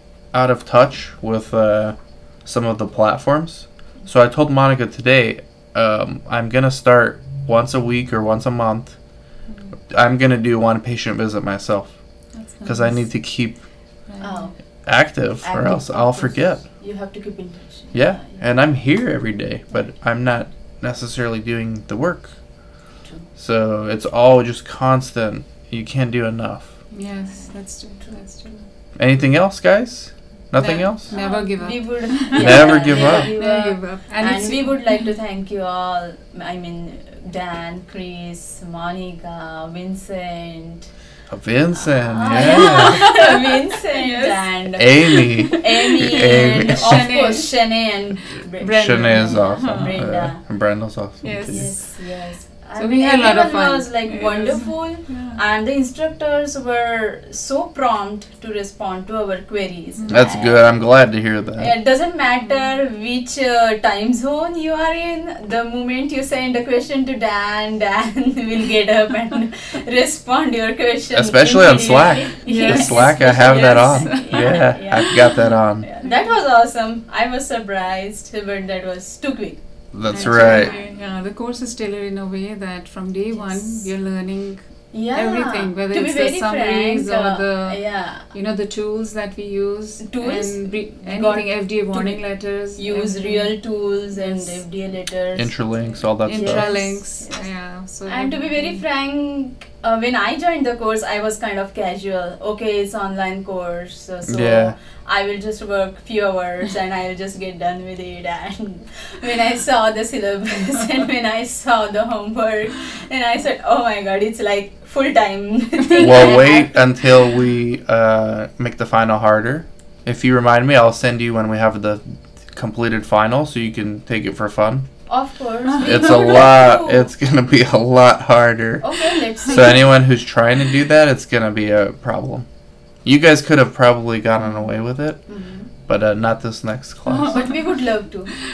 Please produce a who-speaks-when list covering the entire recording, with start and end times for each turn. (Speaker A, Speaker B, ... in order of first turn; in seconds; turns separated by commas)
Speaker A: 0.3-9.3, Speaker B: 9.4-9.8, Speaker A: 9.9-13.9, Speaker B: 12.3-14.5, Speaker C: 14.2-18.5, Speaker A: 14.8-16.7, Speaker A: 17.9-22.7, Speaker C: 23.0-23.3, Speaker A: 23.4-26.8, Speaker B: 26.9-28.7, Speaker C: 27.3-28.1, Speaker A: 28.9-31.1, Speaker B: 30.5-35.1, Speaker C: 31.1-40.9, Speaker A: 32.3-33.3, Speaker A: 41.3-43.2, Speaker C: 41.7-50.4, Speaker B: 42.3-45.6, Speaker A: 44.7-47.1, Speaker B: 46.2-48.0, Speaker B: 48.5-50.0, Speaker A: 48.8-51.8, Speaker B: 51.2-55.4, Speaker C: 51.5-81.0, Speaker B: 60.0-60.4, Speaker A: 60.1-61.7, Speaker B: 62.4-62.7, Speaker A: 71.1-75.9, Speaker B: 72.4-76.2, Speaker A: 79.9-80.7, Speaker B: 80.1-94.6, Speaker C: 83.3-83.9, Speaker C: 84.9-88.3, Speaker C: 90.0-92.2, Speaker C: 92.8-117.0, Speaker A: 95.3-96.8, Speaker B: 96.2-98.8, Speaker A: 104.2-104.7, Speaker A: 116.0-125.1, Speaker C: 125.1-127.1, Speaker A: 125.8-132.4, Speaker C: 128.8-129.9, Speaker A: 133.0-137.6, Speaker B: 134.4-134.7, Speaker C: 135.2-135.7, Speaker B: 137.1-138.4, Speaker C: 137.3-138.3